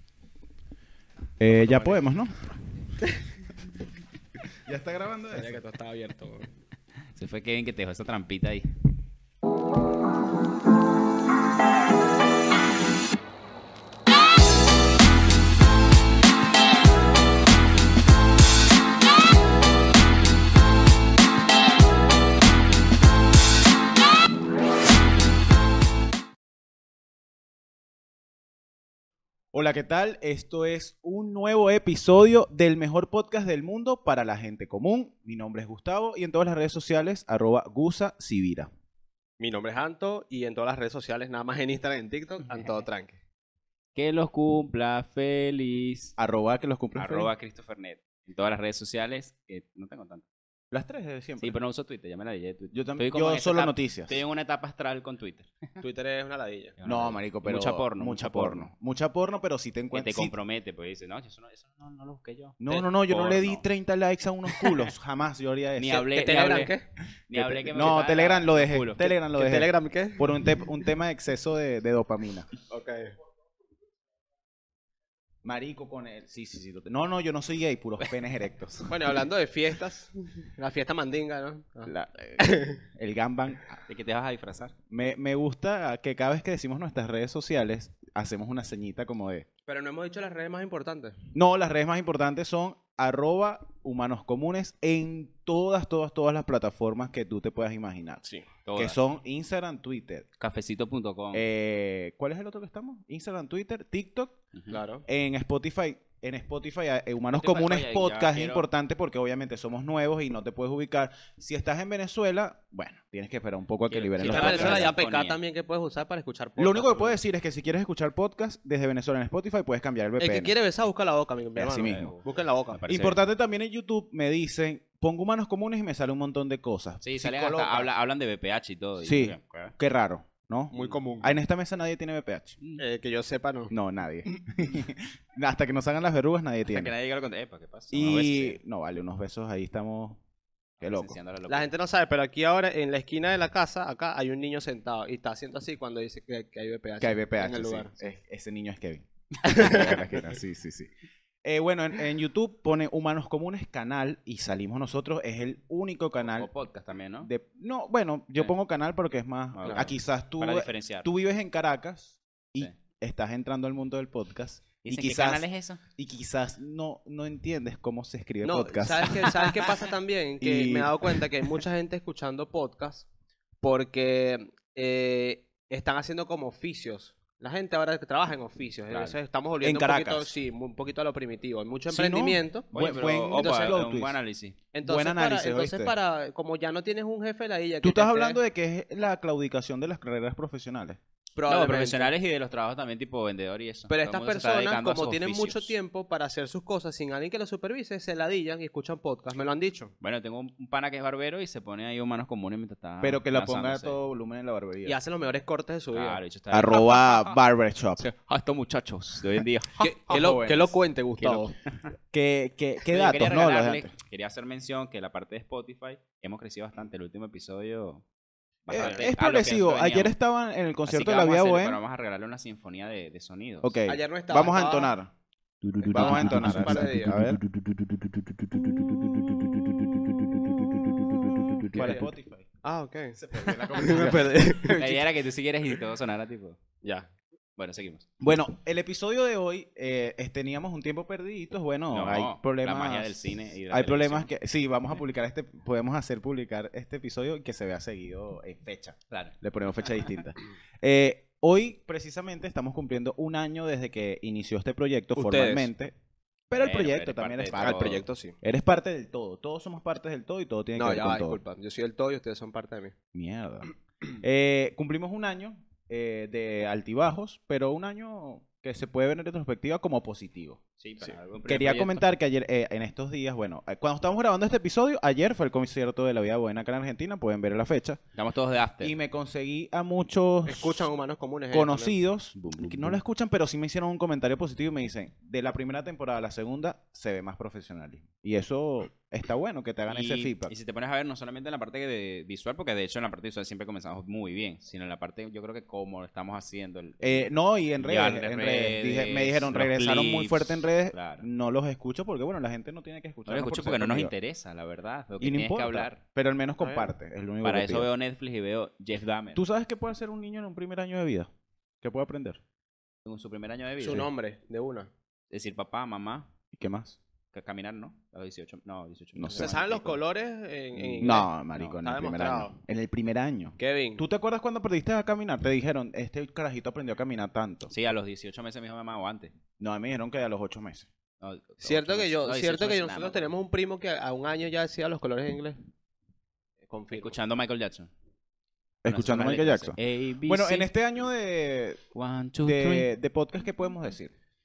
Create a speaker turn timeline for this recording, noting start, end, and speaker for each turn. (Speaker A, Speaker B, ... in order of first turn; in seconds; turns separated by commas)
Speaker A: 1.4-2.4, Speaker B: 1.4-2.0, Speaker A: 4.7-5.6, Speaker C: 5.3-6.5, Speaker B: 7.2-8.7, Speaker A: 29.5-38.7, Speaker C: 39.4-43.2, Speaker B: 44.0-46.1, Speaker A: 46.2-47.3, Speaker B: 47.0-50.2, Speaker A: 50.7-51.6, Speaker B: 51.4-55.5, Speaker A: 52.7-54.2, Speaker C: 55.8-56.8, Speaker B: 56.8-58.7, Speaker A: 56.8-60.4, Speaker B: 59.9-63.6, Speaker A: 62.6-66.1, Speaker B: 64.5-64.9, Speaker B: 65.8-66.7, Speaker C: 66.1-66.9, Speaker B: 67.3-69.1, Speaker A: 67.3-72.5, Speaker C: 69.1-70.2, Speaker C: 72.7-73.1, Speaker A: 75.4-79.2, Speaker C: 78.9-82.8, Speaker A: 81.9-83.8, Speaker B: 83.9-84.7, Speaker A: 84.9-89.5, Speaker C: 89.7-91.2, Speaker A: 91.3-98.2, Speaker B: 98.7-99.0, Speaker A: 98.8-100.3, Speaker B: 100.4-101.5, Speaker A: 101.3-104.4, Speaker C: 104.7-105.0, Speaker A: 105.1-114.9, Speaker B: 107.3-108.7, Speaker B: 113.9-115.4, Speaker C: 114.2-117.2, Speaker A: 116.6-120.5, Speaker C: 120.2-122.8, Speaker A: 121.6-122.1, Speaker B: 121.8-123.2, Speaker A: 122.9-127.9, Speaker B: 127.0-129.7, Speaker A: 129.0-132.6, Speaker C: 130.7-131.4, Speaker C: 132.8-133.7, Speaker A: 133.7-136.9, Speaker B: 136.7-138.6, Speaker A: 137.9-140.2, Speaker A: 140.8-141.2, Speaker B: 140.8-141.7, Speaker C: 141.5-147.9, Speaker A: 147.0-150.9, Speaker C: 149.4-149.9, Speaker A: 151.4-156.5, Speaker B: 156.4-157.3, Speaker A: 157.2-165.4, Speaker B: 159.6-161.1, Speaker B: 164.8-165.8, Speaker A: 166.0-169.3, Speaker C: 168.4-173.1, Speaker A: 170.4-171.2, Speaker C: 173.6-182.7, Speaker B: 178.9-179.2, Speaker A: 179.6-180.3, Speaker A: 181.9-184.2, Speaker B: 182.7-184.6, Speaker C: 183.3-183.8, Speaker C: 184.7-188.4, Speaker A: 184.8-185.9, Speaker A: 187.8-191.0, Speaker C: 191.4-192.1, Speaker B: 191.5-195.8, Speaker C: 193.9-199.9, Speaker B: 200.0-204.0, Speaker A: 203.0-205.0, Speaker C: 204.9-206.2, Speaker B: 205.9-207.4, Speaker A: 206.5-208.1, Speaker B: 208.0-209.9, Speaker C: 209.8-211.5, Speaker A: 210.0-210.8, Speaker A: 212.1-213.9, Speaker B: 212.9-218.0, Speaker B: 218.7-220.2, Speaker A: 218.7-221.8, Speaker C: 218.7-219.1, Speaker B: 220.9-223.7, Speaker A: 223.6-225.1, Speaker C: 223.8-224.9, Speaker B: 225.6-227.6, Speaker A: 225.8-227.4, Speaker C: 225.8-227.2, Speaker A: 231.6-232.5, Speaker C: 231.7-232.0, Speaker C: 232.6-233.2, Speaker A: 233.2-234.5, Speaker B: 233.5-233.9, Speaker C: 233.7-235.0, Speaker B: 234.7-236.6, Speaker C: 236.8-237.1, Speaker B: 237.6-238.1, Speaker A: 238.2-255.9, Speaker B: 241.9-244.3, Speaker C: 255.2-255.7, Speaker A: 256.5-261.4, Speaker B: 256.5-258.0, Speaker C: 257.6-258.4, Speaker C: 260.8-262.9, Speaker A: 263.1-263.7, Speaker A: 264.2-270.6, Speaker B: 270.8-272.0, Speaker A: 271.4-278.0, Speaker B: 278.1-278.9, Speaker A: 278.8-280.9, Speaker C: 280.5-282.0, Speaker A: 281.5-290.6, Speaker B: 282.4-283.0, Speaker B: 289.9-301.2, Speaker A: 297.0-304.1, Speaker B: 303.3-306.0, Speaker A: 305.2-307.9, Speaker C: 306.6-306.9, Speaker B: 307.4-309.4, Speaker A: 309.4-311.3, Speaker A: 311.8-312.4, Speaker B: 313.1-314.1, Speaker C: 313.8-314.9, Speaker B: 315.3-316.3, Speaker A: 316.5-317.0, Speaker B: 317.3-319.8, Speaker A: 319.2-319.9, Speaker C: 319.3-322.6, Speaker A: 320.8-327.7, Speaker C: 323.6-324.0, Speaker B: 327.7-329.3, Speaker A: 329.6-330.9, Speaker B: 331.2-333.3, Speaker C: 331.6-335.6, Speaker C: 336.6-337.1, Speaker B: 336.9-337.9, Speaker A: 338.8-341.8, Speaker B: 338.9-340.7, Speaker B: 341.9-342.9, Speaker A: 342.4-344.1